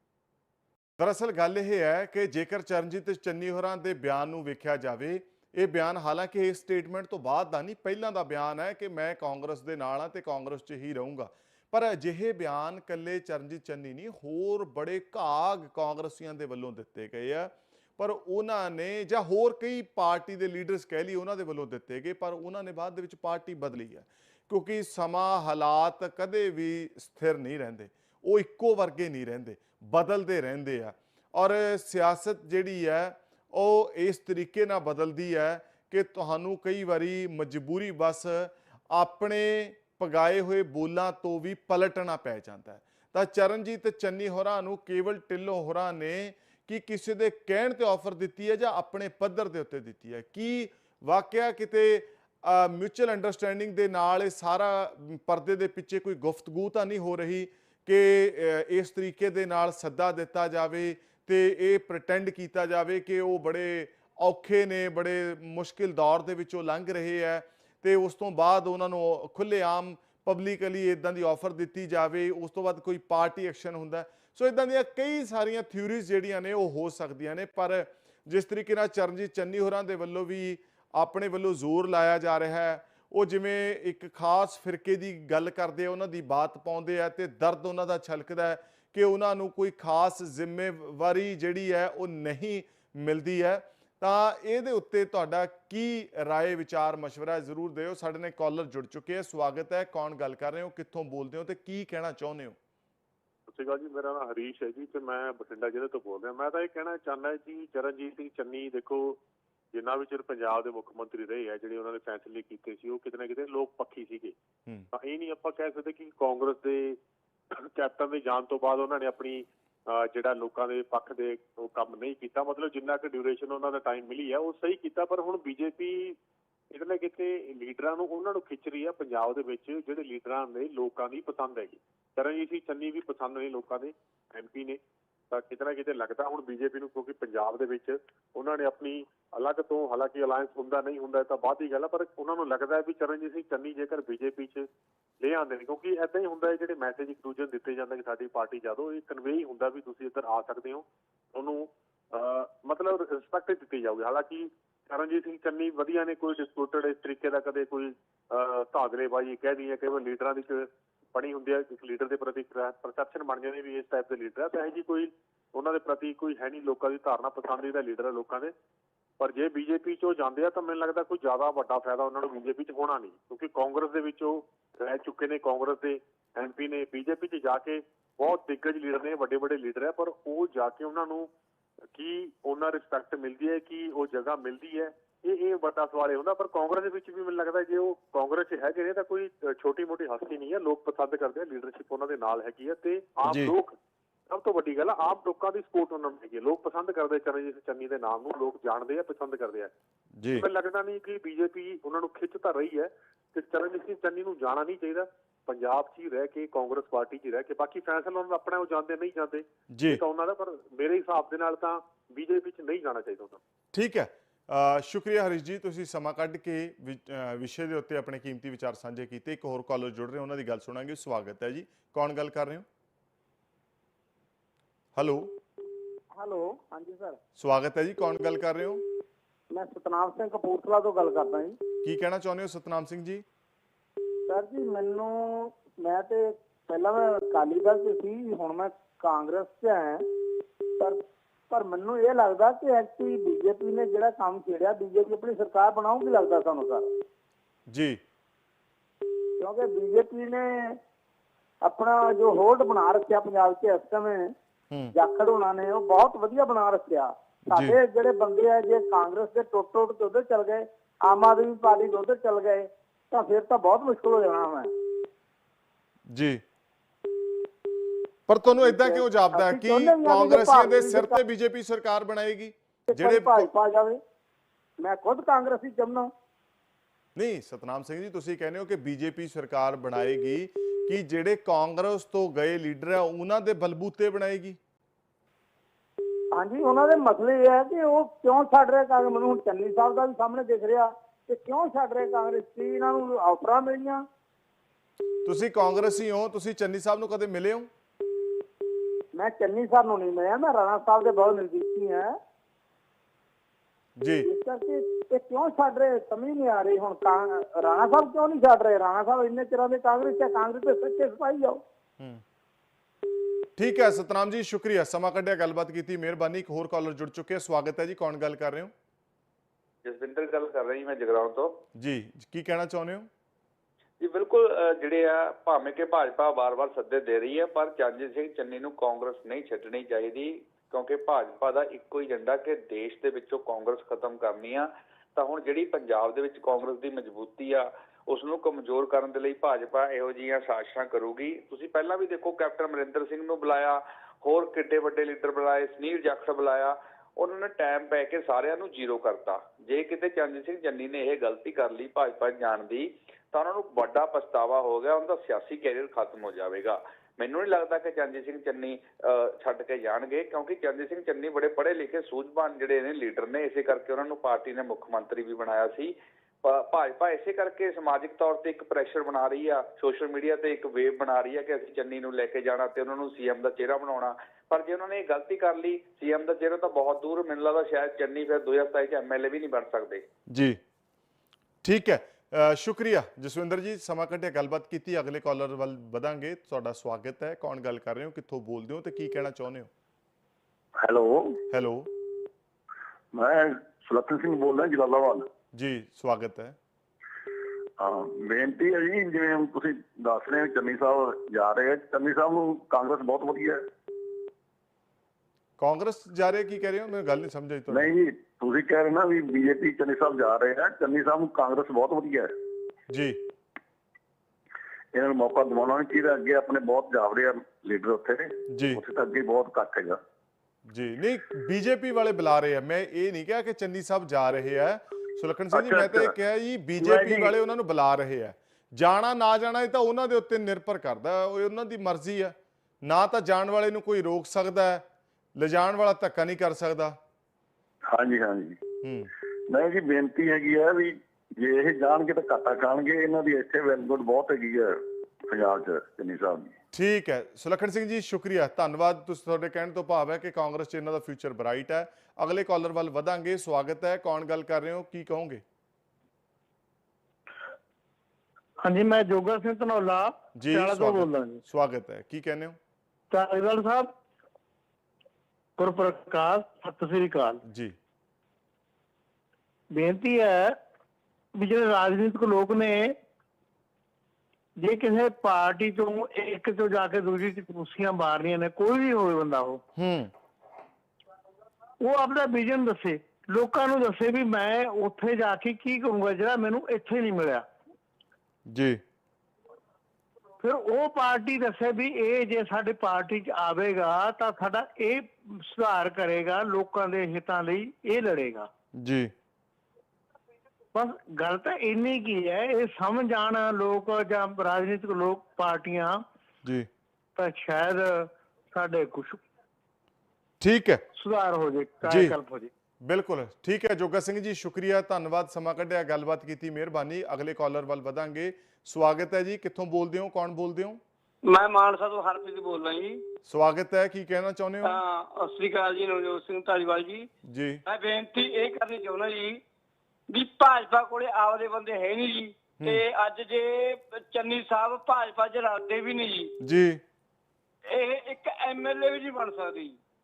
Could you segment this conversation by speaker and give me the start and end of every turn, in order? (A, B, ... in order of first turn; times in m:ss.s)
0:01.0-1:42.6 A
1:43.5-1:49.2 B
1:49.7-1:54.3 B
1:54.9-1:57.0 B
1:57.5-2:06.2 B
2:06.7-2:14.8 B
2:15.3-2:24.7 B
2:25.2-2:48.5 B
2:49.2-3:01.3 B
3:01.9-3:13.7 B
3:13.2-3:13.5 A
3:14.3-3:19.7 B
3:20.2-3:20.5 A
3:20.3-3:33.4 B
3:29.7-3:30.0 A
3:33.7-3:42.6 A
3:44.9-3:45.3 A
3:46.1-3:47.2 C
3:47.4-3:48.8 A
3:49.5-3:51.6 C
3:51.8-3:53.2 A
3:54.3-4:00.0 C
4:00.8-4:06.9 C
4:07.7-4:08.0 A
4:09.4-4:10.8 C
4:11.6-4:14.3 C
4:14.9-4:24.7 C
4:17.5-4:17.8 A
4:26.1-4:26.4 A
4:28.3-4:33.5 A
4:28.5-4:31.2 C
4:32.9-4:34.0 C
4:34.8-4:36.1 C
4:37.2-4:44.6 A
4:46.3-4:54.0 C
4:55.2-4:57.7 A
4:59.1-5:02.1 C
5:04.0-5:04.3 A
5:04.2-5:11.6 C
5:13.6-5:18.7 A
5:19.8-5:21.6 D
5:21.7-5:23.1 A
5:24.0-6:20.0 D
6:20.3-6:20.6 A
6:21.6-6:29.7 A
6:30.8-6:31.4 E
6:31.5-6:31.9 A
6:33.1-6:35.3 E
6:35.5-6:36.6 A
6:37.8-6:43.6 E
6:45.6-6:47.9 A
6:47.7-6:52.3 E
6:52.9-6:53.2 A
6:54.9-7:00.0 E
6:58.5-6:58.8 A
7:00.7-7:14.8 A
7:05.5-7:06.1 E
7:06.8-7:07.3 E
7:15.4-7:17.0 A
7:17.9-7:18.6 E
7:18.8-7:19.1 A
7:19.5-7:26.5 E
7:26.7-7:35.4 A
7:38.6-7:41.4 F
7:40.3-7:42.6 A
7:43.1-7:43.9 F
7:45.6-7:47.4 F
7:47.4-7:47.7 A
7:49.7-7:50.6 F
7:51.3-7:53.0 F
7:54.6-7:59.6 F
7:59.8-8:00.1 A
8:01.8-8:07.4 F
8:08.5-8:08.8 A
8:10.4-8:18.5 F
8:18.8-8:19.1 A
8:20.7-8:26.0 F
8:27.2-8:29.2 F
8:30.4-8:30.8 A
8:30.9-8:32.5 F
8:31.8-8:32.2 A
8:32.8-8:40.8 A
8:41.2-8:43.0 G
8:43.3-8:44.8 A
8:44.6-8:47.1 G
8:47.2-8:47.6 A
8:47.6-8:49.4 G
8:50.1-8:56.3 G
8:56.4-8:56.8 A
8:57.7-8:59.8 G